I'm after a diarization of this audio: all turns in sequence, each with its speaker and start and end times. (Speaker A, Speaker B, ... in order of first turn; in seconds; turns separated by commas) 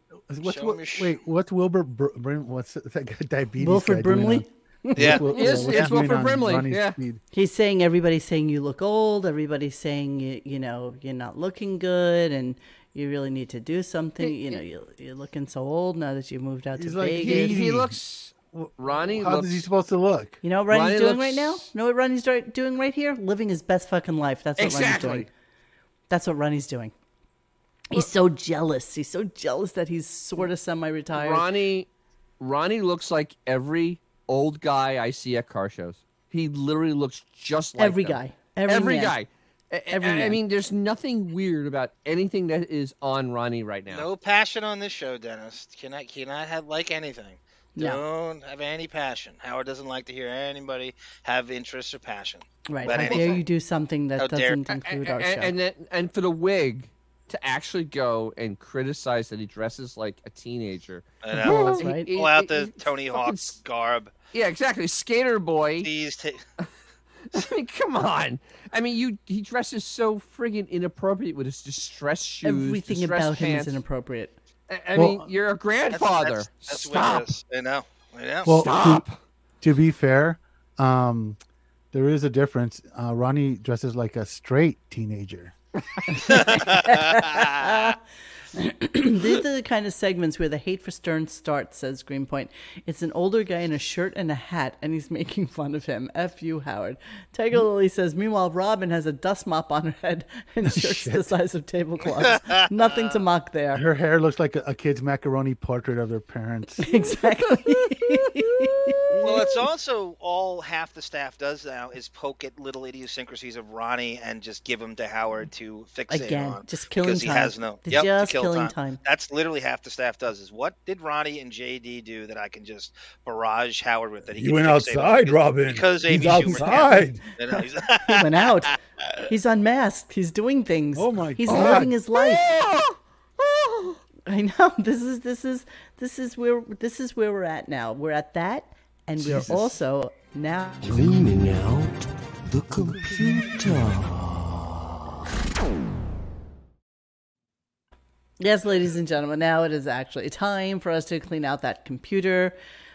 Speaker A: 0.3-7.2, Speaker B: 0.4-1.1, Speaker C: 3.6-5.7, Speaker B: 5.0-5.9, Speaker D: 5.2-7.0, Speaker C: 7.3-17.6, Speaker D: 14.2-14.6, Speaker A: 16.8-18.0, Speaker D: 17.2-19.7, Speaker A: 18.5-20.4, Speaker C: 20.4-25.3, Speaker D: 20.7-21.6, Speaker D: 24.6-25.3, Speaker C: 26.1-26.9, Speaker C: 27.9-31.5, Speaker D: 31.1-31.9, Speaker D: 32.4-44.1, Speaker C: 37.8-39.2, Speaker C: 39.9-40.4, Speaker B: 43.9-53.4, Speaker C: 47.8-48.0, Speaker C: 52.7-55.5, Speaker D: 52.9-53.4, Speaker B: 54.2-54.6, Speaker D: 54.7-63.6, Speaker B: 61.2-64.1, Speaker C: 61.4-62.1, Speaker D: 64.3-65.9, Speaker B: 65.8-66.4, Speaker D: 67.3-73.8, Speaker C: 72.4-74.4, Speaker D: 74.7-77.3, Speaker A: 74.9-75.2, Speaker B: 75.9-78.6, Speaker A: 78.5-79.0, Speaker D: 78.5-79.2, Speaker A: 79.6-81.4, Speaker A: 81.9-85.5, Speaker C: 86.1-88.0, Speaker B: 86.3-88.0, Speaker C: 88.5-103.8, Speaker A: 100.7-101.3, Speaker B: 102.2-103.2, Speaker A: 103.7-106.9, Speaker C: 106.8-109.3, Speaker B: 109.2-128.5, Speaker C: 116.1-119.0, Speaker A: 124.4-127.2, Speaker C: 126.3-127.0, Speaker C: 128.1-128.8, Speaker C: 129.3-132.5, Speaker A: 130.9-131.9, Speaker D: 131.5-134.0, Speaker C: 134.3-140.9, Speaker A: 139.2-139.7, Speaker E: 140.8-144.7, Speaker C: 148.4-152.6